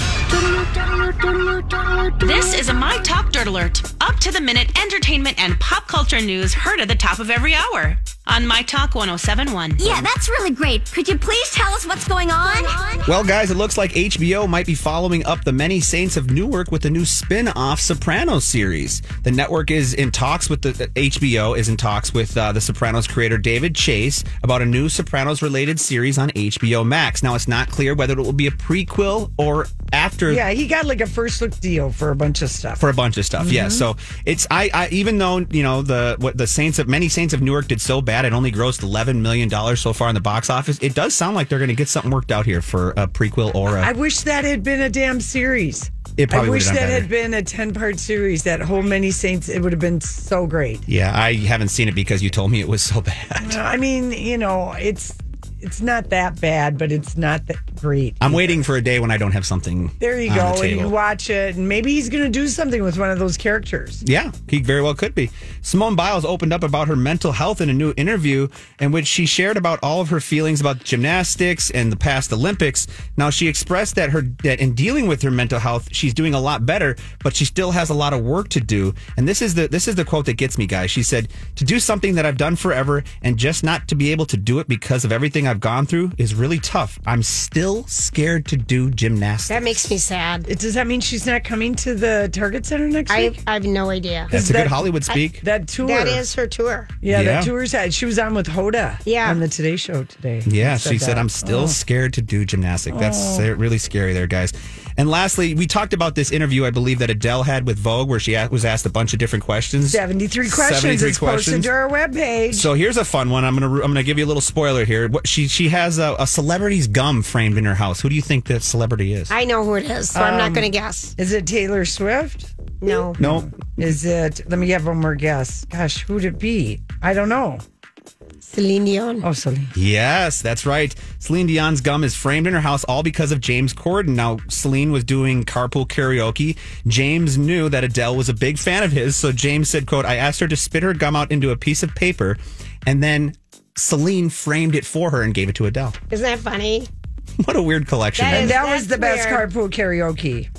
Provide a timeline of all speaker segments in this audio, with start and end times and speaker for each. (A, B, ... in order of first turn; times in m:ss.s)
0:02.2-0:09.9 A
0:09.8-0:13.1 B
0:13.0-0:30.4 C
0:30.3-0:32.9 D
0:32.8-0:43.9 C
0:33.4-0:33.9 D
0:43.7-0:50.8 D
0:46.2-0:47.1 C
0:50.9-0:53.6 C
0:53.4-0:58.6 D
0:58.2-1:01.0 C
1:00.0-1:04.0 D
1:04.0-1:30.0 C
1:29.5-1:30.5 E
1:30.4-1:33.4 D
1:33.1-1:34.3 E
1:34.3-1:36.3 D
1:34.3-1:35.4 C
1:35.8-1:36.9 E
1:37.0-1:41.8 D
1:37.1-1:37.5 C
1:39.0-1:39.4 E
1:40.4-1:51.7 C
1:42.9-1:43.5 D
1:49.8-1:52.7 D
1:52.5-1:59.3 C
1:59.3-2:01.1 E
2:00.1-2:07.6 D
2:02.8-2:03.2 E
2:03.2-2:03.5 C
2:08.4-2:09.2 E
2:09.2-2:09.7 D
2:09.7-2:26.0 C
2:26.1-2:26.9 E
2:27.4-2:28.6 C
2:28.2-2:29.5 E
2:28.3-2:30.5 D